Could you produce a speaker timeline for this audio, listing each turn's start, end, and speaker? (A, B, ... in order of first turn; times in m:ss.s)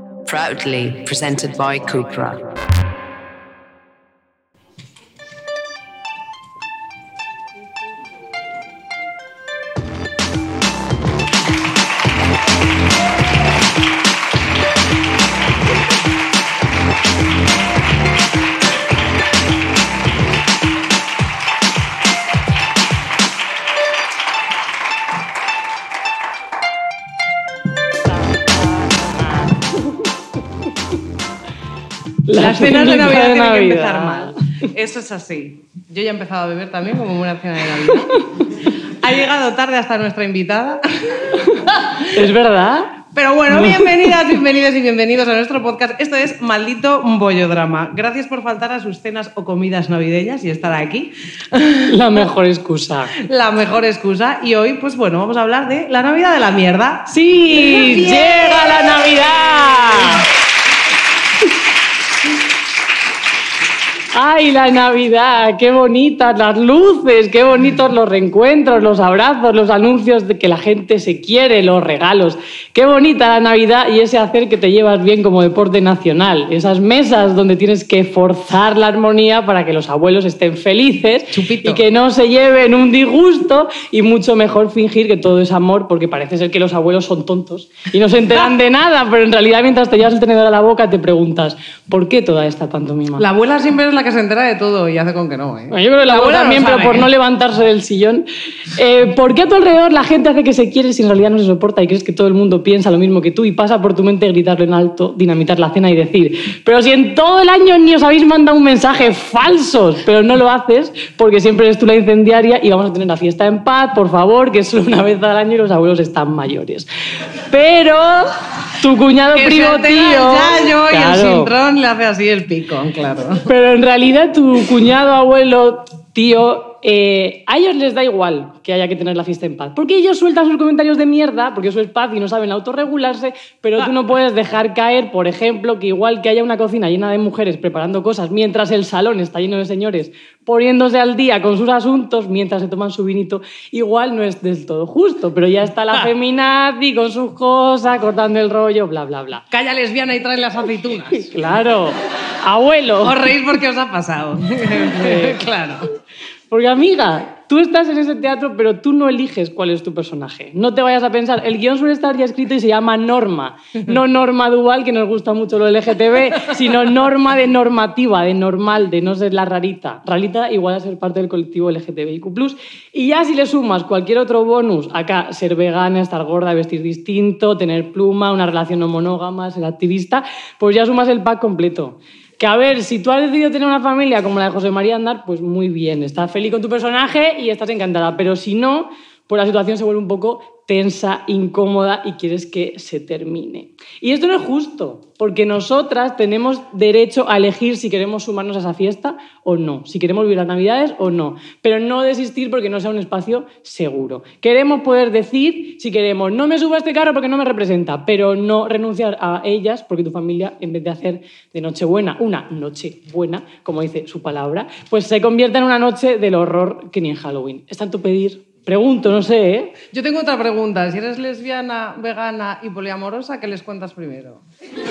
0:00.2-0:02.4 A
0:32.3-0:34.4 B
0:32.3-0:42.2 C
0:42.1-0:44.1 B
0:43.1-0:52.2 C
0:51.9-0:53.1 B
0:53.2-1:00.2 C
0:57.1-1:00.3 B
1:04.1-1:33.2 B
1:21.3-1:21.8 C
1:33.2-1:37.1 C
1:35.7-1:56.9 B
1:57.5-2:01.5 B
1:59.3-2:03.5 C
2:03.4-2:29.4 B
2:29.5-2:31.4 C
2:31.2-2:33.2 B
2:33.0-2:35.9 C
2:35.0-2:35.4 B
2:36.5-3:39.8 B
3:39.9-3:44.4 C